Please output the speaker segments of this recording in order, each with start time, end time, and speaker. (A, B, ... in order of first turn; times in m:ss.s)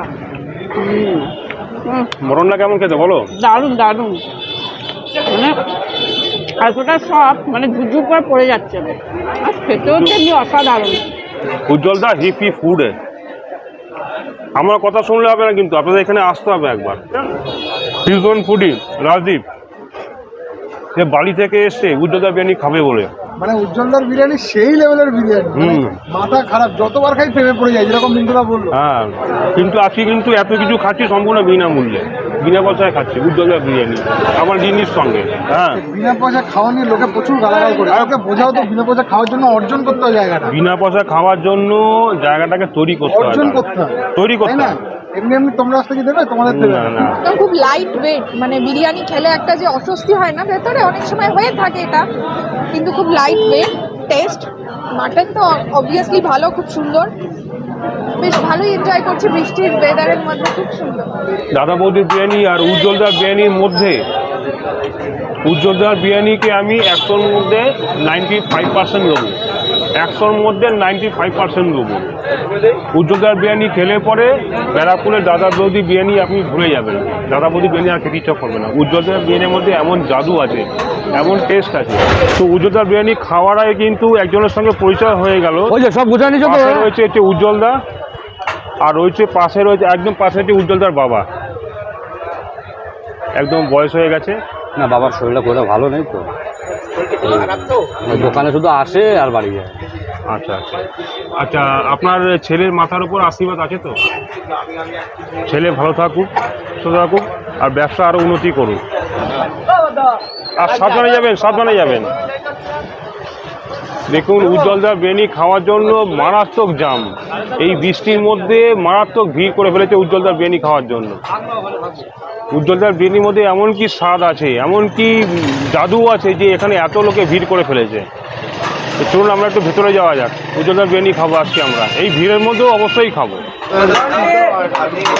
0:00.8-0:01.3 A
0:02.2-0:03.3 B
0:03.4-0:04.2 A
0:05.3-0:05.6 A
0:06.6-0:11.0 A
0:09.8-0:10.2 B
0:11.7-0:13.0 B
0:14.6-0:17.3 B
0:18.0-0:19.4 B
0:21.0-0:23.1 B
0:23.4-0:28.7 C
0:25.6-0:26.0 B
0:28.7-0:35.8 B
0:35.7-0:40.5 C
0:37.9-0:38.2 B
0:40.5-0:43.6 B
0:43.1-0:47.1 C
0:44.2-0:44.7 B
0:46.5-0:47.2 B
0:47.2-0:52.0 D
0:52.7-0:57.1 D
0:58.2-1:01.1 D
1:01.5-1:04.0 B
1:05.4-1:09.4 B
1:10.0-1:12.1 B
1:12.9-1:25.8 B
1:25.7-1:26.8 E
1:26.4-1:27.8 B
1:28.8-1:31.2 B
1:33.4-1:34.4 B
1:34.8-1:36.2 E
1:37.2-1:37.5 E
1:38.0-1:39.7 E
1:38.1-1:38.4 B
1:40.3-1:44.0 B
1:45.5-1:48.8 B
1:50.6-1:52.1 B
1:54.1-2:01.2 B
2:02.5-2:08.1 B
2:09.0-2:13.4 B